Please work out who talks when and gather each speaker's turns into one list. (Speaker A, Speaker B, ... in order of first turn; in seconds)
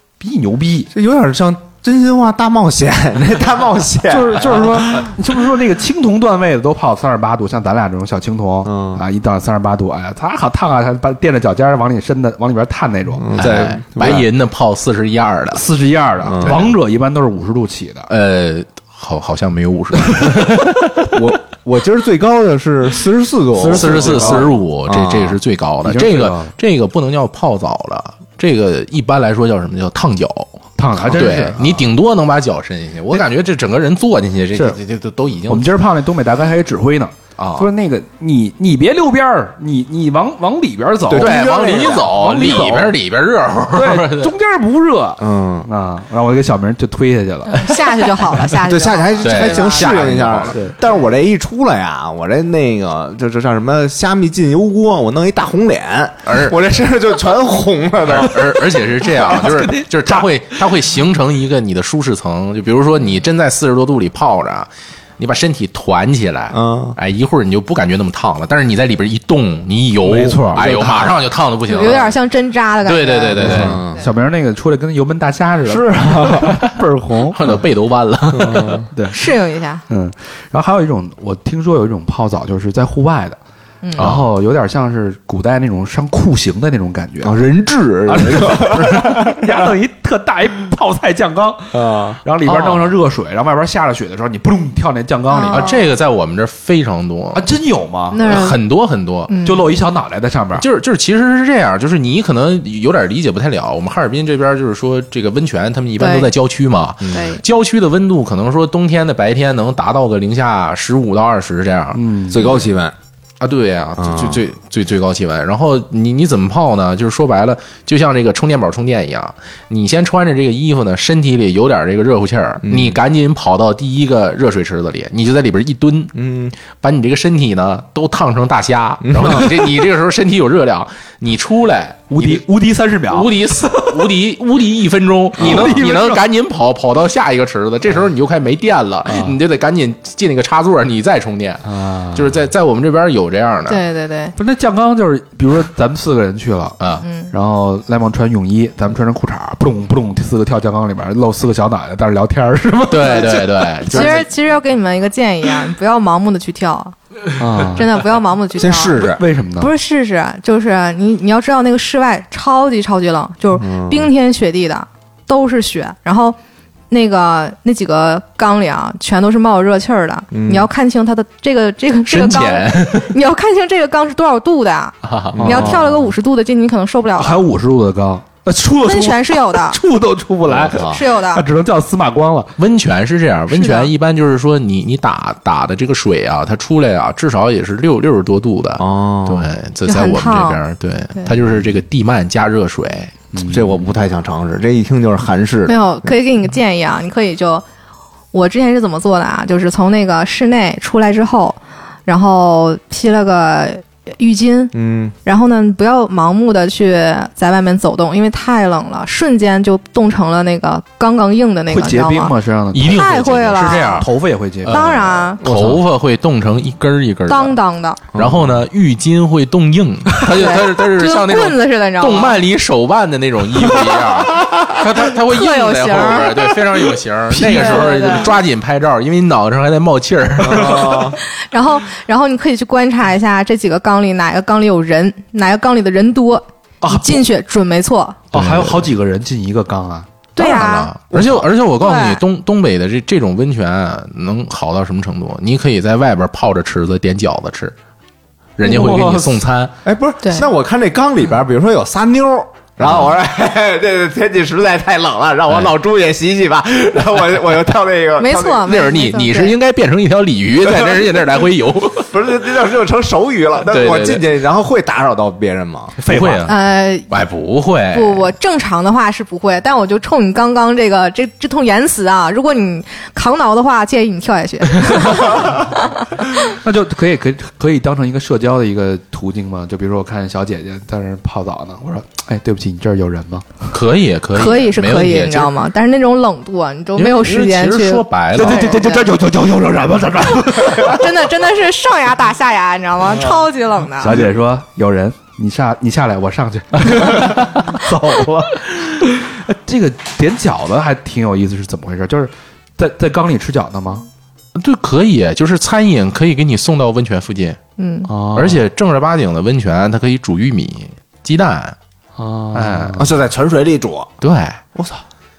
Speaker A: 0.2-0.9, 4.1-13.3, 15.5-18.1, 23.6-24.5, 25.8-26.5, 30.8-31.8, 34.5-34.8, 35.5-42.9, 43.7-47.7, 50.5-50.8, 59.3-60.3, 70.0-70.8, 73.4-77.5, 78.9-79.2, 79.9-83.4, 84.0-87.5, 88.0-95.7, 97.3-98.2, 99.4-100.7, 111.9-112.4, 132.1-133.9, 135.4-136.2, 139.1-139.4, 141.6-142.3, 144.4-146.8, 147.3-153.6, 157.4-157.9, 159.0-159.7, 175.4-175.8, 177.2-182.5, 193.3-193.8, 211.7-213.1, 213.8-215.1, 236.8-237.2, 238.3-240.1, 248.7-249.3, 266.0-266.5, 276.5-283.6, 288.4-291.1, 294.0-304.1, 308.1-308.6, 312.2-313.1
Speaker B: 0.9-5.1, 8.7-9.0, 13.2-14.3, 16.2-16.6, 21.1-25.4, 41.1-42.7, 45.2-45.7, 48.6-58.8, 66.5-67.0, 70.6-71.1, 73.4-74.0, 75.7-76.5, 78.3-78.9, 87.2-89.6, 91.7-92.6, 107.0-107.3, 112.3-113.0, 114.0-114.4, 122.6-123.0, 126.2-126.5, 129.0-129.6, 158.6-159.2, 163.6-164.1, 170.3-170.7, 175.3-175.9, 180.5-181.1, 188.8-189.5, 193.4-195.8, 204.7-205.2, 215.4-215.8, 218.1-218.7, 230.5-231.2, 241.1-241.5, 249.8-258.7, 260.6-261.1, 262.1-266.0, 313.0-314.1, 314.8-315.0
Speaker C: 13.3-15.6, 16.4-16.7, 18.1-21.2, 23.6-35.7, 37.4-37.7, 41.2-44.3, 49.2-50.6, 56.3-56.6, 58.0-72.2, 72.8-73.8, 77.3-78.9, 84.0-84.2, 95.5-97.5, 98.2-99.3, 100.6-112.6, 113.4-132.4, 133.1-143.8, 146.8-147.1, 152.9-154.3, 172.1-173.1, 175.0-175.8, 182.6-193.2, 212.7-214.1, 214.7-217.6, 218.1-231.1, 238.3-238.9, 240.4-247.8, 248.6-249.7, 252.8-253.1, 258.6-262.1, 263.7-264.2, 266.1-268.4, 283.7-285.5, 287.0-288.9, 304.6-307.6, 308.3-311.8, 312.5-313.0, 314.2-314.6
Speaker D: 47.5-50.0, 71.7-74.0, 79.1-79.8, 83.8-84.2, 95.3-95.9, 98.1-98.6, 99.3-99.7, 106.0-106.3, 107.1-107.4, 143.7-144.3, 147.0-147.3, 153.1-156.9, 157.7-166.4, 166.9-177.4, 178.8-179.8, 180.8-181.4, 183.5-183.9, 189.9-190.6, 195.7-197.7, 198.3-204.7, 205.2-214.1, 214.7-215.4, 217.3-218.0, 220.3-222.4, 225.2-226.6, 227.3-228.3, 231.5-238.2, 240.4-240.9, 241.8-242.2, 250.2-250.5, 258.2-259.6, 266.5-267.1, 267.9-275.8, 284.3-289.1, 290.6-294.2, 307.8-308.1